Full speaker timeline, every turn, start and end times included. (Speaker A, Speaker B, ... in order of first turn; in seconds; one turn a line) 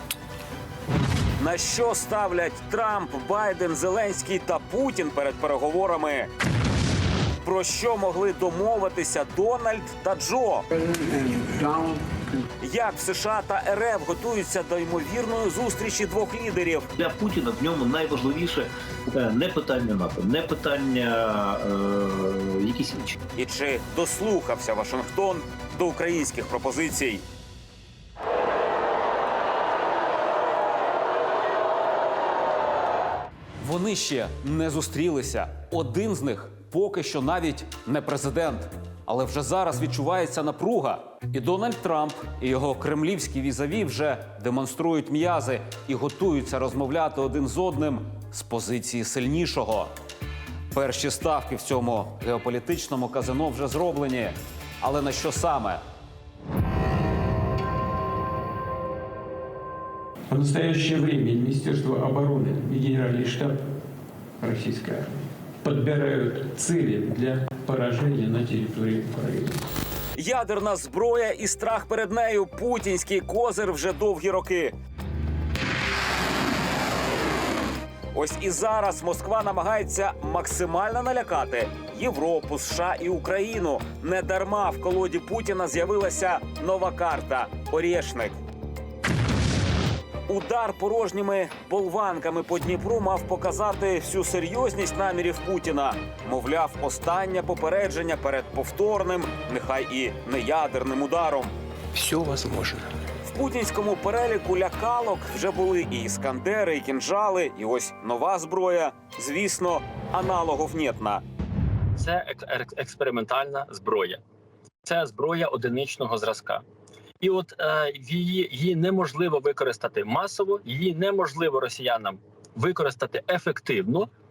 Speaker A: 1.4-6.3
Speaker A: 7.4-10.6
Speaker B: 10.8-12.0
Speaker A: 12.6-16.9
Speaker C: 17.0-23.1
Speaker A: 23.3-27.2
Speaker A: 33.6-49.9
Speaker A: 50.7-55.8
Speaker B: 60.3-63.6
Speaker B: 64.4-69.6
Speaker A: 70.2-74.7
Speaker A: 78.1-88.4
Speaker A: 90.3-101.5
Speaker B: 102.0-102.8
Speaker A: 103.2-111.2
Speaker D: 112.0-114.2
Speaker D: 114.8-116.6
Speaker D: 117.2-124.1